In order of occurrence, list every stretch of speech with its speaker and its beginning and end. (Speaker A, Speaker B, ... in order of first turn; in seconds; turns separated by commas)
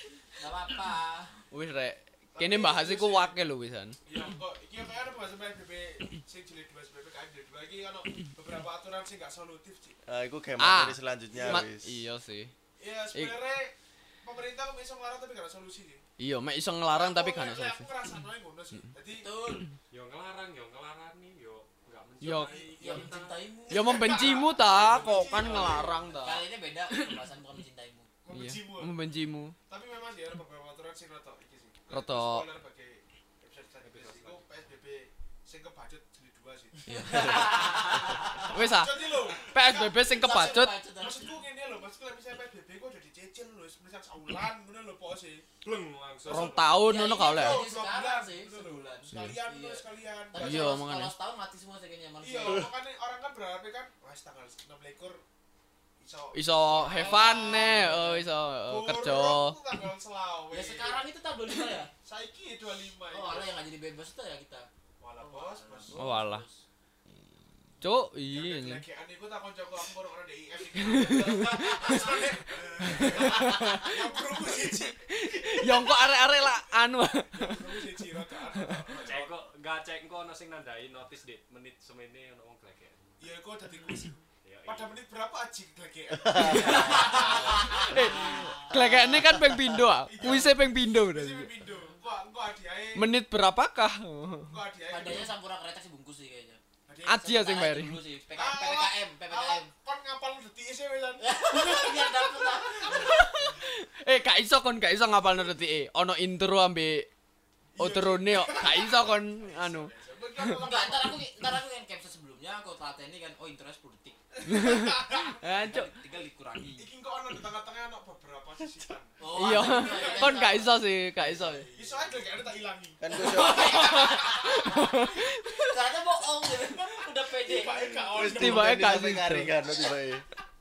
Speaker A: 0.4-1.4, Speaker B: 1.5-4.0, Speaker C: 2.3-3.4, Speaker C: 4.0-10.0, Speaker D: 10.0-12.0, Speaker B: 10.6-12.5, Speaker C: 11.3-11.6, Speaker C: 12.8-16.0, Speaker B: 16.2-17.9, Speaker C: 16.9-19.3, Speaker A: 19.1-19.6, Speaker E: 19.9-23.4, Speaker B: 22.2-22.6, Speaker C: 22.2-26.2, Speaker A: 22.7-28.1, Speaker B: 23.7-27.2, Speaker C: 28.2-29.0, Speaker B: 28.3-29.5, Speaker C: 29.7-45.7, Speaker B: 31.9-32.5, Speaker E: 33.8-34.4, Speaker B: 36.9-40.7, Speaker A: 36.9-38.5, Speaker A: 40.0-41.3, Speaker E: 45.6-46.7, Speaker C: 46.2-50.8, Speaker B: 46.2-47.6, Speaker A: 46.8-52.7, Speaker B: 50.4-51.1, Speaker C: 52.2-55.2, Speaker C: 56.0-61.0, Speaker B: 56.3-59.8, Speaker A: 56.9-58.2, Speaker A: 60.5-61.9, Speaker C: 62.0-63.5, Speaker A: 63.1-64.7, Speaker C: 65.0-66.2, Speaker A: 65.2-66.6, Speaker B: 65.9-66.4, Speaker B: 67.8-68.8, Speaker C: 68.2-75.8, Speaker B: 70.8-72.2, Speaker A: 71.6-72.2, Speaker B: 72.8-77.8, Speaker A: 73.1-73.9, Speaker C: 77.3-79.3, Speaker B: 78.6-78.9, Speaker E: 79.0-83.3, Speaker C: 83.2-93.1, Speaker E: 84.4-85.0, Speaker D: 86.2-86.8, Speaker A: 86.4-88.6, Speaker B: 86.4-91.5, Speaker D: 89.2-89.7, Speaker B: 92.9-94.5, Speaker C: 94.5-95.3, Speaker A: 94.9-96.6, Speaker C: 96.9-97.2, Speaker B: 97.0-98.0, Speaker A: 97.2-99.7, Speaker C: 98.3-103.5, Speaker A: 101.2-103.2, Speaker B: 102.9-107.1, Speaker C: 107.7-111.2, Speaker B: 107.8-110.6, Speaker A: 110.6-114.7, Speaker C: 114.4-115.4, Speaker B: 114.5-115.9, Speaker A: 115.4-116.9, Speaker C: 116.8-120.5, Speaker A: 119.2-122.0, Speaker B: 119.3-121.7, Speaker C: 121.4-125.0, Speaker D: 123.0-124.0, Speaker A: 123.1-125.1, Speaker B: 123.8-125.8, Speaker A: 125.6-127.9, Speaker C: 127.3-129.1, Speaker D: 128.1-130.2, Speaker B: 128.2-129.5